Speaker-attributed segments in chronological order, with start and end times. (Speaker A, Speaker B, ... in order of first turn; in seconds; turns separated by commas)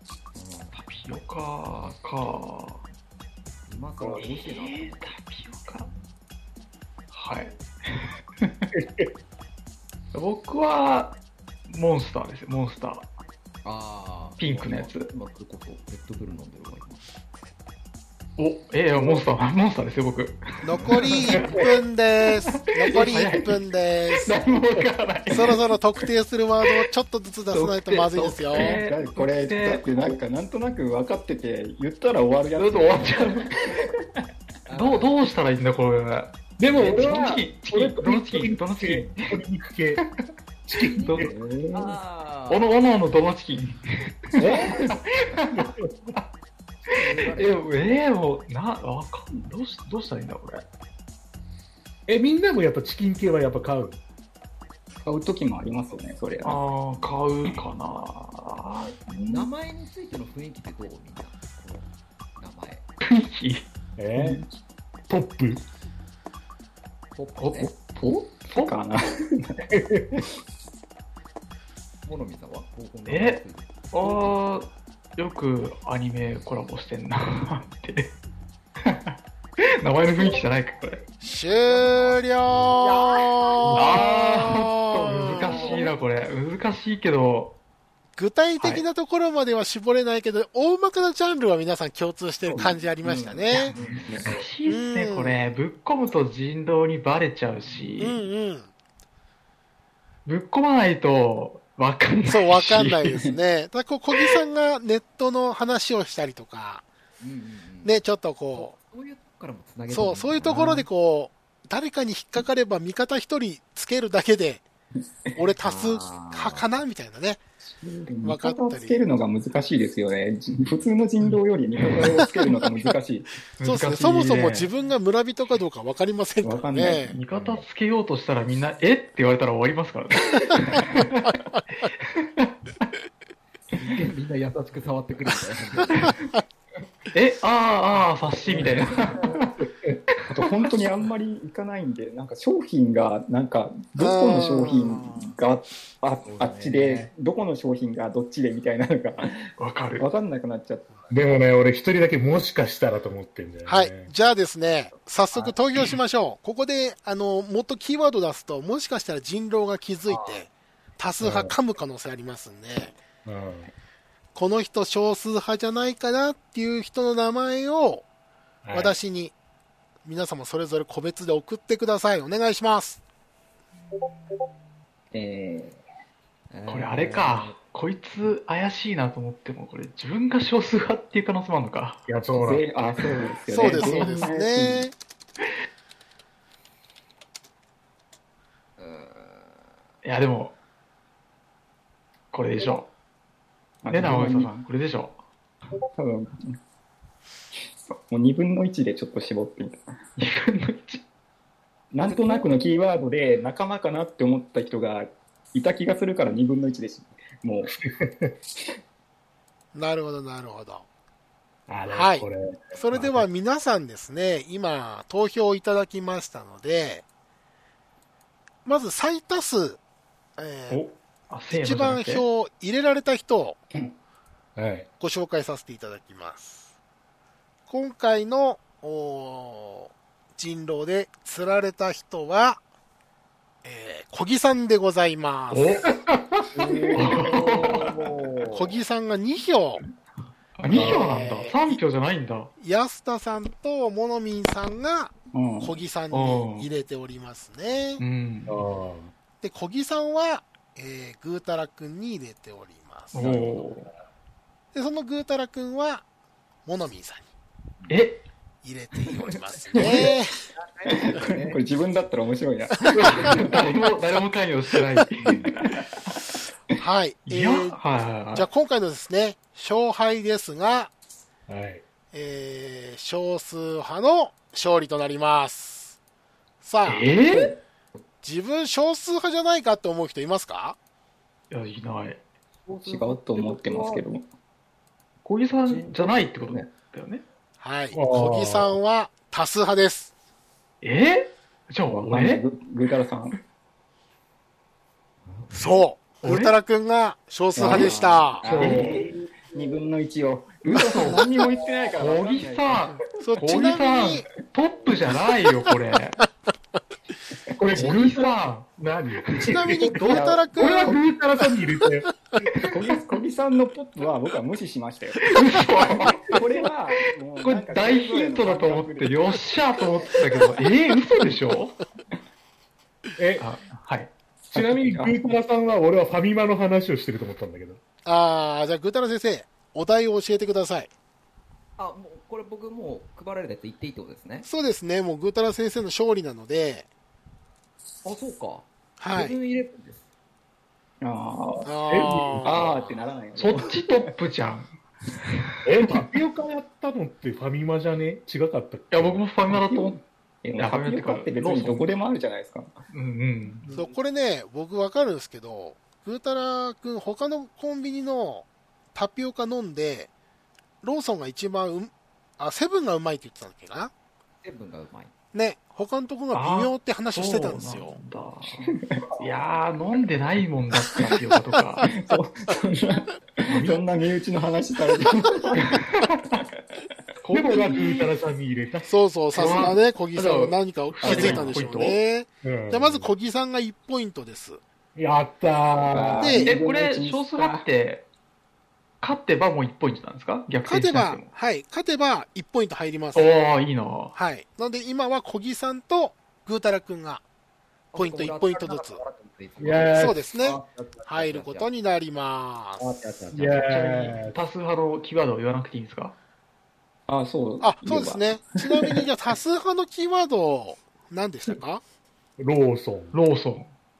Speaker A: 0.3-0.8, Speaker B: 0.7-2.8, Speaker A: 3.7-5.1, Speaker B: 4.2-5.9, Speaker B: 7.1-8.7, Speaker C: 8.7-9.1, Speaker B: 10.1-13.1, Speaker A: 13.6-17.1, Speaker B: 14.4-15.1, Speaker B: 18.4-21.4, Speaker D: 20.6-24.3, Speaker B: 22.5-25.6, Speaker D: 25.3-28.8, Speaker B: 27.5-29.9, Speaker E: 28.5-34.2, Speaker B: 32.5-33.6, Speaker A: 34.7-35.1, Speaker B: 34.7-39.4, Speaker C: 36.6-40.0, Speaker C: 40.7-41.3, Speaker B: 41.0-41.3, Speaker A: 41.0-42.7, Speaker E: 41.2-42.0, Speaker B: 42.5-46.2, Speaker C: 44.4-44.9, Speaker C: 45.5-46.1, Speaker B: 46.9-50.6, Speaker A: 46.9-47.6, Speaker C: 52.1-54.0, Speaker E: 55.0-56.6, Speaker B: 56.4-59.0, Speaker E: 59.1-59.5, Speaker A: 59.2-62.8, Speaker B: 63.0-63.6, Speaker C: 64.0-64.4, Speaker E: 64.1-64.5, Speaker C: 65.1-65.6, Speaker A: 67.1-67.7, Speaker B: 67.4-68.8, Speaker E: 68.0-70.2, Speaker C: 69.7-70.0, Speaker A: 72.0-74.3, Speaker B: 73.1-78.1, Speaker B: 78.8-81.0, Speaker D: 81.2-85.8, Speaker A: 81.3-83.6, Speaker C: 83.7-84.0, Speaker B: 83.7-87.6, Speaker E: 85.2-85.6, Speaker A: 85.5-85.8, Speaker D: 88.2-93.7, Speaker A: 93.0-94.2, Speaker B: 93.5-98.2, Speaker D: 94.7-95.5, Speaker D: 98.0-98.7, Speaker B: 100.2-103.2, Speaker D: 102.3-106.8, Speaker B: 104.1-104.4, Speaker A: 107.2-108.0, Speaker D: 107.8-108.7, Speaker A: 108.5-110.9, Speaker D: 109.9-114.6, Speaker D: 115.3-117.4, Speaker A: 115.6-116.7, Speaker E: 117.6-123.3, Speaker D: 118.2-119.0, Speaker B: 123.6-124.7, Speaker D: 123.6-127.1, Speaker E: 126.4-127.2, Speaker B: 127.1-132.5, Speaker A: 133.7-136.2, Speaker B: 135.9-136.2, Speaker B: 137.1-139.6, Speaker A: 138.4-139.4, Speaker C: 139.6-139.9, Speaker B: 140.1-140.4, Speaker E: 140.3-151.0, Speaker D: 144.0-145.3, Speaker C: 146.2-147.1, Speaker B: 149.6-150.1, Speaker C: 151.1-154.1, Speaker D: 153.7-162.9, Speaker C: 161.2-161.5, Speaker C: 163.2-163.7, Speaker D: 164.3-168.0, Speaker C: 168.6-168.9, Speaker D: 168.7-169.3, Speaker D: 170.0-173.0, Speaker A: 174.1-174.5, Speaker E: 175.1-175.8, Speaker A: 176.5-177.5, Speaker B: 176.7-182.1, Speaker C: 182.1-182.7, Speaker E: 182.3-184.9, Speaker D: 183.5-184.9, Speaker A: 188.8-189.6, Speaker B: 190.0-190.5, Speaker B: 192.3-192.9, Speaker E: 193.8-194.6, Speaker B: 193.9-195.2, Speaker E: 195.9-196.6, Speaker E: 197.9-199.9, Speaker B: 200.2-201.0, Speaker E: 201.9-207.7, Speaker C: 207.7-208.3, Speaker D: 209.7-210.8, Speaker C: 211.7-213.2, Speaker D: 211.9-217.0, Speaker D: 218.6-219.8, Speaker D: 220.4-220.8, Speaker B: 220.7-222.2, Speaker D: 221.5-223.6, Speaker C: 224.6-224.9, Speaker D: 225.0-226.7, Speaker D: 227.7-232.6, Speaker D: 233.6-235.8, Speaker B: 235.5-235.9, Speaker C: 235.9-236.6, Speaker A: 236.6-238.7, Speaker E: 236.6-238.1, Speaker B: 236.9-237.9, Speaker D: 238.5-239.8, Speaker B: 240.6-242.5, Speaker D: 240.7-241.8, Speaker C: 240.7-241.1, Speaker D: 242.6-248.0, Speaker E: 245.3-245.7, Speaker B: 246.1-246.7, Speaker B: 248.0-248.6, Speaker C: 248.5-249.1, Speaker D: 249.4-253.4, Speaker B: 253.1-253.9, Speaker C: 253.2-253.6, Speaker D: 254.7-256.0, Speaker D: 256.6-257.3, Speaker B: 257.9-258.2, Speaker D: 258.6-260.4, Speaker B: 259.7-260.1, Speaker A: 260.1-261.6, Speaker E: 260.9-263.9, Speaker D: 262.9-263.3, Speaker B: 262.9-265.8, Speaker D: 266.8-267.8, Speaker B: 267.3-268.5, Speaker D: 268.3-270.9, Speaker C: 271.5-271.8, Speaker D: 272.1-276.0, Speaker D: 276.6-277.1, Speaker B: 276.9-277.6, Speaker D: 278.2-280.8, Speaker B: 281.5-282.2, Speaker A: 282.7-284.0, Speaker E: 282.8-284.2, Speaker B: 285.2-287.2, Speaker A: 285.7-286.1, Speaker E: 285.9-286.6, Speaker D: 287.6-290.1, Speaker C: 287.9-288.8, Speaker B: 290.8-292.4, Speaker E: 291.9-293.4, Speaker A: 295.3-295.8, Speaker D: 295.5-298.4, Speaker B: 296.2-296.6, Speaker E: 297.6-303.0, Speaker C: 298.4-299.2, Speaker B: 298.5-299.0, Speaker B: 300.7-301.3, Speaker B: 301.9-306.2, Speaker D: 303.2-304.3, Speaker C: 307.6-312.2, Speaker B: 307.7-310.2, Speaker D: 309.4-311.0, Speaker E: 309.9-311.0, Speaker E: 312.6-319.5, Speaker B: 315.2-316.4, Speaker B: 317.0-321.8, Speaker C: 323.2-323.5, Speaker B: 323.4-324.1, Speaker E: 324.5-325.3, Speaker C: 324.5-327.8, Speaker D: 328.0-330.9, Speaker A: 331.8-334.5, Speaker D: 334.4-336.9, Speaker A: 338.0-340.0, Speaker D: 339.0-339.4, Speaker E: 341.0-341.7, Speaker D: 341.6-342.9, Speaker C: 341.9-342.7, Speaker E: 342.4-344.1, Speaker B: 343.4-346.0, Speaker C: 345.6-349.2, Speaker B: 348.9-350.0, Speaker E: 349.5-352.8, Speaker B: 350.6-351.9, Speaker B: 352.9-353.6, Speaker D: 353.7-360.1, Speaker D: 360.8-363.9, Speaker A: 364.4-365.1, Speaker D: 365.3-368.0, Speaker B: 366.3-371.9, Speaker E: 368.6-369.0, Speaker E: 370.9-371.2, Speaker E: 371.8-375.8, Speaker C: 373.5-373.8, Speaker B: 375.5-376.4, Speaker B: 377.2-378.1, Speaker C: 377.3-378.9, Speaker D: 378.9-384.6, Speaker B: 379.3-382.0, Speaker E: 381.0-381.5, Speaker C: 382.4-383.1, Speaker C: 384.9-386.4, Speaker E: 385.9-387.7, Speaker D: 386.2-386.5, Speaker B: 386.4-388.1, Speaker B: 389.0-391.3, Speaker D: 390.6-393.3, Speaker B: 393.1-394.1, Speaker D: 394.1-397.2, Speaker A: 397.9-401.7, Speaker D: 397.9-399.0, Speaker C: 399.6-400.2, Speaker D: 399.9-402.8, Speaker A: 402.8-403.6, Speaker C: 403.3-404.3, Speaker B: 403.4-406.1, Speaker E: 407.1-409.0, Speaker D: 407.6-411.8, Speaker C: 412.4-413.2, Speaker B: 413.1-413.7